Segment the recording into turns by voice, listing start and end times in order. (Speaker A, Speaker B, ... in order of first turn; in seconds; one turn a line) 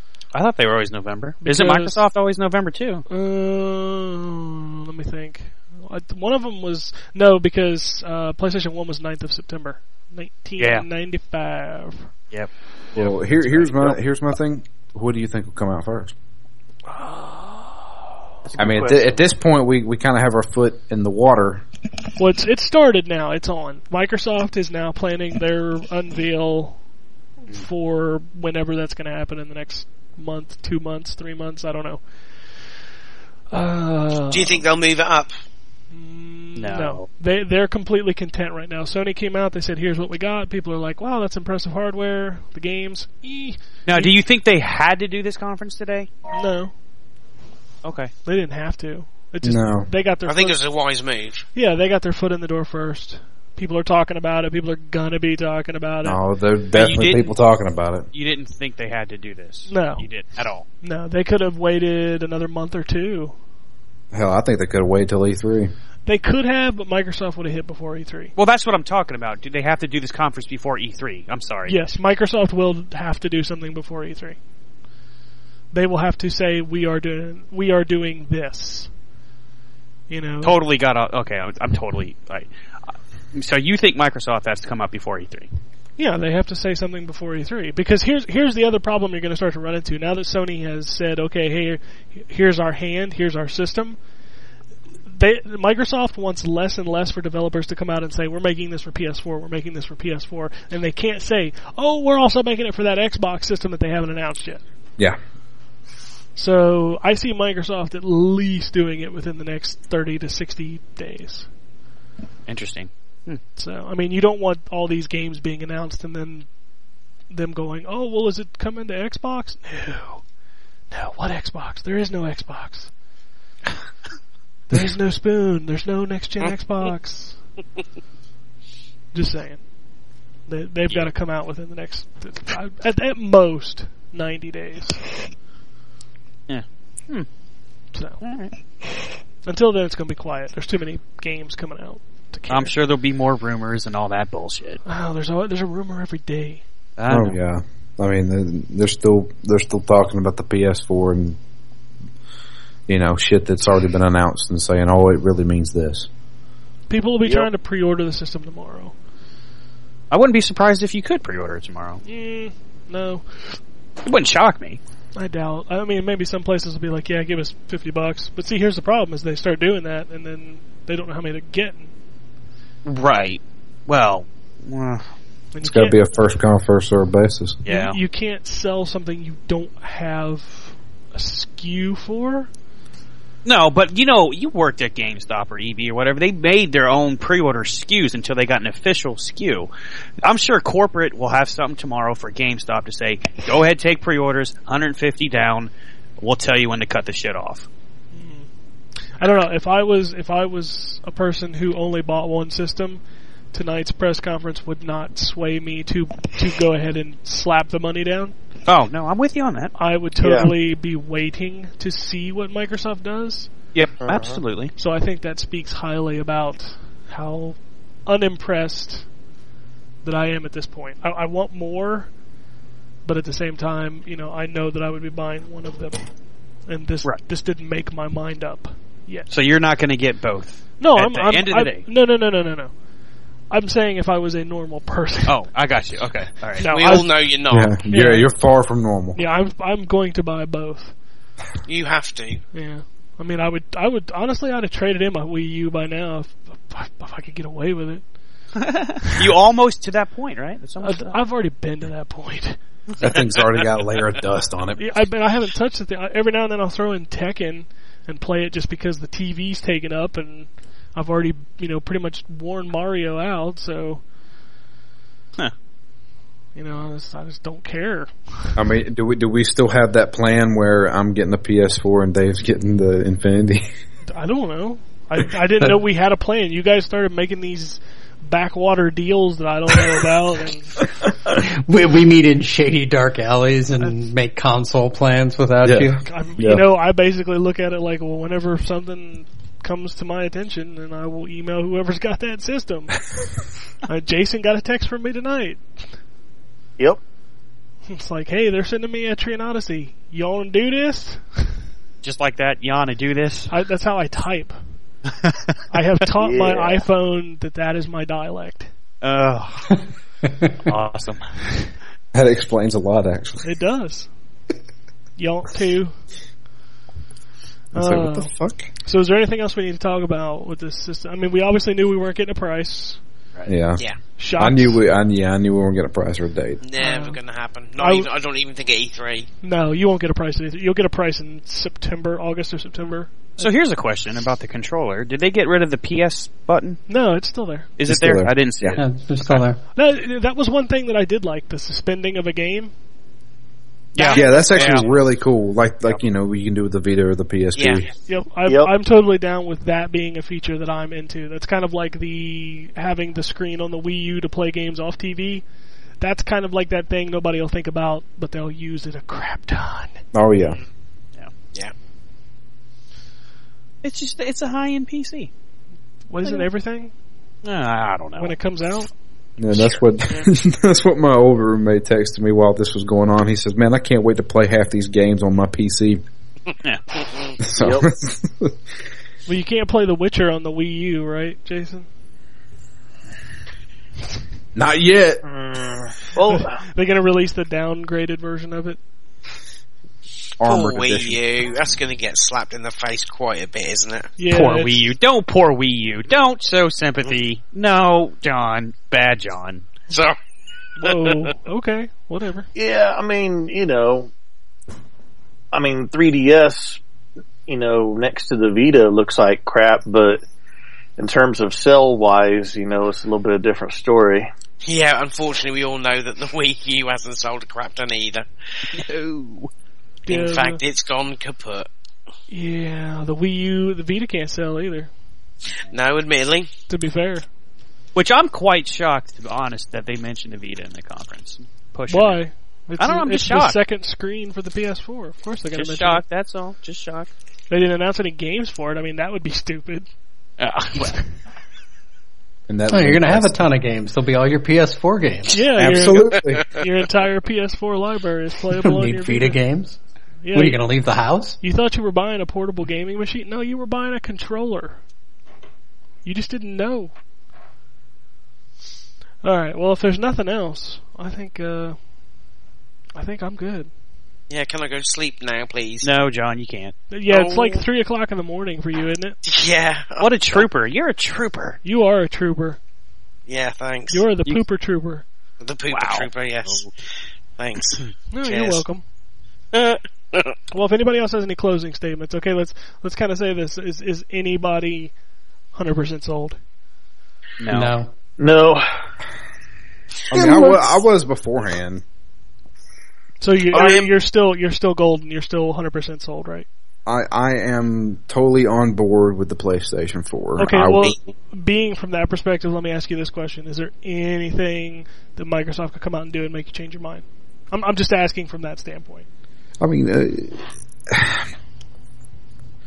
Speaker A: 0.3-3.0
Speaker B: 1.4-2.0
Speaker B: 3.1-12.1
Speaker A: 10.6-10.9
Speaker A: 12.3-13.7
Speaker C: 12.9-16.1
Speaker B: 16.9-17.9
Speaker D: 18.4-19.2
Speaker C: 18.6-21.6
Speaker B: 22.2-26.8
Speaker B: 27.4-32.0
Speaker B: 33.5-34.6
Speaker E: 34.3-35.3
Speaker B: 35.9-44.2
Speaker A: 36.6-37.1
Speaker A: 43.9-46.1
Speaker B: 46.3-46.7
Speaker A: 47.8-48.1
Speaker B: 48.2-50.6
Speaker C: 49.4-49.9
Speaker E: 50.3-51.5
Speaker B: 51.5-56.2
Speaker C: 56.0-58.1
Speaker A: 56.7-57.3
Speaker A: 58.1-60.7
Speaker B: 59.7-60.0
Speaker B: 60.8-63.4
Speaker C: 64.1-65.7
Speaker B: 66.1-68.3
Speaker A: 68.4-71.8
Speaker B: 71.7-74.4
Speaker B: 75.7-78.9
Speaker B: 80.1-80.6
Speaker A: 80.4-85.5
Speaker B: 86.0-94.0
Speaker B: 95.1-104.6
Speaker B: 106.4-111.5
Speaker A: 112.5-113.4
Speaker B: 113.6-116.5
Speaker B: 117.3-120.2
Speaker B: 120.9-122.9
Speaker B: 124.7-127.4
Speaker B: 129.1-129.7
Speaker B: 130.5-135.1
Speaker A: 136.5-137.3
Speaker B: 137.9-138.2
Speaker A: 138.2-138.5
Speaker B: 139.5-142.8
Speaker A: 142.5-144.8
Speaker B: 144.9-146.6
Speaker A: 147.0-147.4
Speaker C: 147.1-151.4
Speaker C: 152.9-156.1
Speaker B: 156.9-158.9
Speaker A: 160.1-162.0
Speaker B: 162.1-163.2
Speaker A: 164.1-164.8
Speaker B: 165.2-171.9
Speaker A: 172.8-175.1
Speaker B: 175.5-176.0
Speaker C: 175.6-177.6
Speaker A: 177.7-178.0
Speaker B: 177.7-182.5
Speaker A: 183.4-189.7
Speaker A: 190.2-197.7
Speaker B: 198.1-198.5
Speaker B: 199.2-203.0
Speaker B: 203.5-208.3
Speaker A: 208.7-209.8
Speaker B: 209.8-213.5
Speaker D: 210.2-210.5
Speaker A: 213.7-214.7
Speaker D: 214.0-214.4
Speaker B: 214.8-219.1
Speaker B: 220.0-222.1
Speaker B: 223.1-226.0
Speaker B: 226.7-229.3
Speaker A: 229.3-231.8
Speaker B: 230.8-232.7
Speaker B: 233.5-235.4
Speaker A: 235.3-237.0
Speaker B: 236.6-237.2
Speaker E: 236.7-237.8
Speaker C: 237.5-239.2
Speaker B: 237.9-238.3
Speaker B: 239.2-240.9
Speaker E: 241.7-242.4
Speaker B: 242.5-248.0
Speaker A: 248.6-251.2
Speaker B: 250.8-252.6
Speaker C: 253.0-254.8
Speaker B: 254.8-264.0
Speaker B: 266.6-268.6
Speaker C: 268.6-273.6
Speaker B: 274.1-280.8
Speaker F: 281.4-286.0
Speaker C: 285.6-286.6
Speaker B: 286.0-293.0
Speaker B: 293.9-295.6
Speaker B: 297.9-301.5
Speaker A: 302.0-303.5
Speaker B: 303.5-304.6
Speaker A: 305.1-305.5
Speaker B: 305.7-308.7
Speaker D: 306.2-306.8
Speaker A: 309.0-309.7
Speaker A: 310.6-311.4
Speaker C: 312.1-313.4
Speaker B: 313.4-314.1
Speaker B: 315.2-315.9
Speaker B: 317.7-318.3
Speaker C: 317.7-318.7
Speaker B: 318.8-323.0
Speaker C: 323.5-323.8
Speaker B: 324.2-324.8
Speaker C: 324.4-326.6
Speaker E: 326.6-329.3
Speaker B: 326.8-327.2
Speaker B: 327.8-328.1
Speaker B: 329.4-333.5
Speaker A: 333.4-336.8
Speaker B: 336.9-337.7
Speaker A: 337.8-339.4
Speaker C: 337.9-338.8
Speaker F: 338.8-339.6
Speaker B: 339.8-342.7
Speaker A: 343.9-344.9
Speaker E: 344.0-344.9
Speaker B: 344.0-344.6
Speaker C: 344.1-347.9
Speaker E: 347.6-347.9
Speaker B: 348.1-355.4
Speaker D: 348.5-348.7
Speaker B: 356.0-360.0
Speaker C: 360.1-360.6
Speaker A: 363.8-365.3
Speaker B: 366.1-366.9
Speaker A: 367.4-368.4
Speaker B: 368.2-368.9
Speaker C: 369.4-376.0
Speaker C: 377.4-378.6
Speaker D: 377.6-377.9
Speaker B: 379.3-381.9
Speaker C: 384.6-385.2
Speaker D: 385.2-386.6
Speaker B: 386.3-388.8
Speaker C: 390.4-391.2
Speaker E: 390.4-394.1
Speaker B: 394.2-394.7
Speaker A: 394.3-399.7
Speaker E: 399.9-400.2
Speaker B: 400.8-402.5
Speaker E: 400.8-401.2
Speaker D: 402.6-404.1
Speaker D: 405.5-406.8
Speaker D: 407.5-410.2
Speaker D: 411.0-414.3
Speaker E: 414.6-418.3
Speaker A: 418.7-419.5
Speaker B: 420.1-420.6
Speaker E: 420.1-421.7
Speaker B: 422.3-424.9
Speaker E: 425.7-426.5
Speaker B: 426.7-427.3
Speaker A: 427.9-432.2
Speaker B: 431.9-436.0
Speaker A: 432.8-433.6
Speaker A: 435.6-437.1
Speaker B: 437.5-439.9
Speaker A: 440.4-441.0
Speaker C: 442.5-443.3
Speaker F: 442.7-445.5
Speaker B: 445.3-449.4
Speaker A: 445.6-446.0
Speaker C: 445.6-446.5
Speaker F: 448.6-449.8
Speaker B: 450.2-450.6
Speaker F: 450.3-451.4
Speaker B: 451.4-454.8
Speaker B: 456.1-456.9
Speaker B: 459.2-461.8
Speaker B: 462.9-463.7
Speaker E: 464.3-465.9
Speaker A: 465.8-466.8
Speaker B: 466.9-469.2
Speaker E: 467.1-467.6
Speaker E: 469.2-470.4
Speaker A: 470.0-471.6
Speaker B: 471.6-472.6
Speaker E: 473.3-474.0
Speaker B: 473.9-475.1
Speaker E: 475.4-476.6
Speaker A: 475.7-476.7
Speaker E: 477.4-478.6
Speaker B: 478.1-478.8
Speaker E: 479.5-480.4
Speaker B: 480.5-484.9
Speaker B: 485.5-486.4
Speaker A: 487.4-487.8
Speaker F: 487.5-487.9
Speaker D: 488.2-488.6
Speaker C: 490.1-491.8
Speaker D: 490.1-490.7
Speaker B: 493.2-496.5
Speaker E: 493.5-493.9
Speaker C: 496.9-500.9
Speaker B: 500.4-509.1
Speaker C: 509.6-511.3